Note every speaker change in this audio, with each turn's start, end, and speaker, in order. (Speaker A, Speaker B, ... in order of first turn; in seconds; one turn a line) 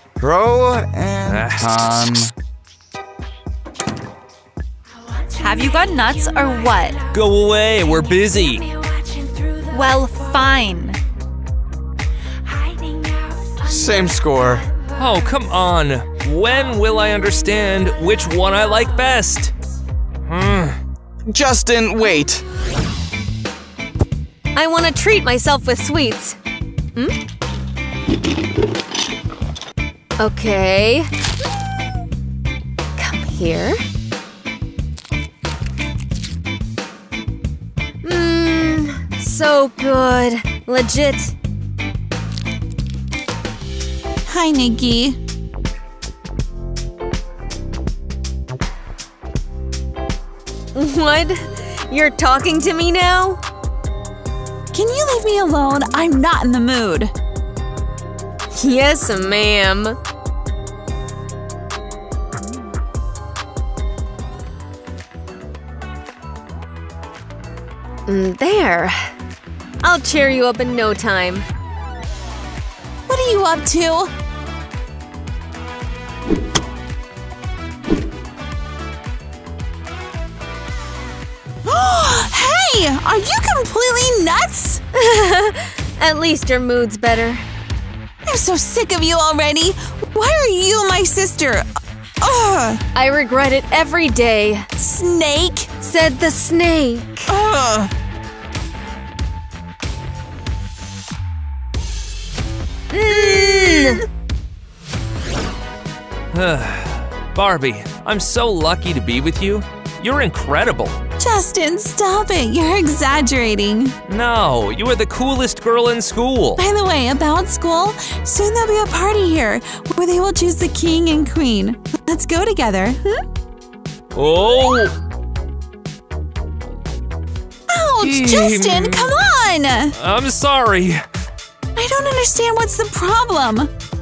Speaker A: 0.2-2.3
Speaker B: 1.3-2.1
Speaker C: 5.3-7.0
Speaker B: 7.1-8.7
Speaker C: 9.7-11.0
Speaker A: 13.6-14.7
Speaker B: 15.0-19.5
Speaker B: 20.3-20.8
Speaker A: 21.3-22.4
Speaker D: 24.5-26.4
Speaker D: 30.2-31.1
Speaker D: 33.0-33.8
Speaker D: 38.0-41.4
Speaker E: 44.2-45.2
Speaker D: 50.7-53.4
Speaker E: 54.7-57.1
Speaker D: 58.5-60.0
Speaker D: 68.1-69.1
Speaker D: 69.8-71.5
Speaker E: 73.1-74.1
Speaker E: 81.6-84.8
Speaker D: 84.9-87.4
Speaker E: 88.3-91.7
Speaker E: 92.2-92.8
Speaker D: 92.9-94.8
Speaker E: 94.8-95.7
Speaker D: 95.8-97.3
Speaker E: 97.3-97.9
Speaker D: 102.9-104.0
Speaker E: 103.1-103.6
Speaker B: 106.3-111.0
Speaker E: 111.2-114.0
Speaker B: 114.1-116.6
Speaker E: 116.6-123.2
Speaker B: 124.1-124.9
Speaker E: 127.7-130.0
Speaker B: 128.0-129.2
Speaker B: 129.9-131.0
Speaker E: 131.8-133.7